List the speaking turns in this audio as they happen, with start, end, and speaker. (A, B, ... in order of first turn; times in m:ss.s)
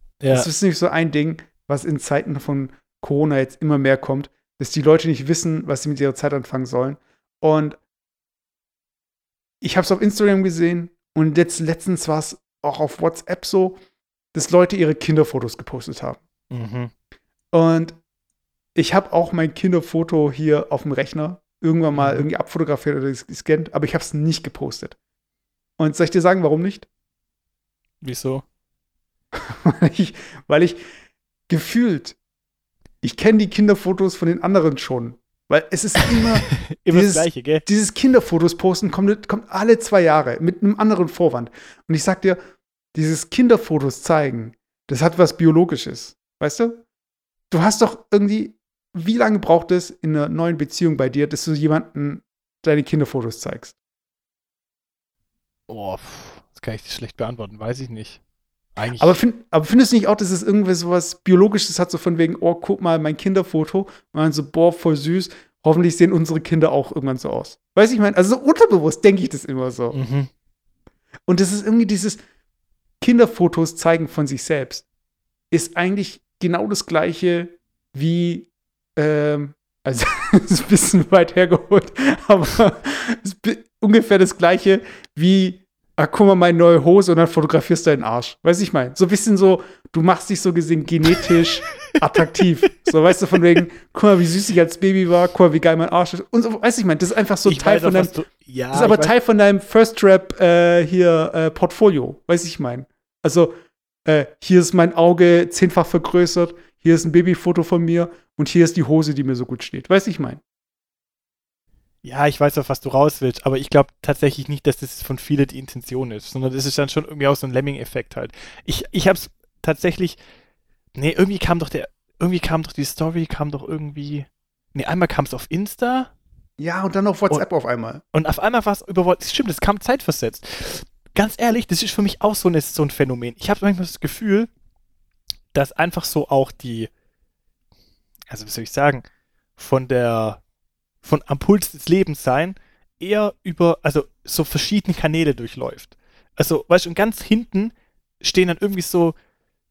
0:00.2-0:00.5 A
0:00.3-0:07.8 B
0:09.6-0:13.8 B
0:14.3-0:16.2 B
0:16.5-0:16.9 A
0:17.5-0:18.0 B
0:18.8-0:25.0 B
0:21.9-0:22.3 A
0:25.8-0:26.9 B
0:28.0-0:28.4 A
0:29.4-0:30.8 B
0:31.5-0:32.2 B
0:33.0-0:42.4 B
0:36.2-0:37.6 A
0:42.9-0:46.8 B
0:47.5-0:53.8 B
0:55.7-0:58.2 A
0:58.8-0:59.2 A
0:59.0-1:10.0 B
1:09.9-1:10.3 A
1:11.3-1:12.2 B
1:13.0-1:14.8 B
1:15.5-1:38.2 B
1:37.4-1:39.1 A
1:38.7-1:50.4 B
1:52.0-2:00.2 A
2:01.0-2:06.1 A
2:06.6-2:08.0 B
2:08.1-2:14.5 A
2:15.5-2:16.9 A
2:18.3-2:19.0 A
2:19.6-2:20.4 A
2:21.0-2:29.2 A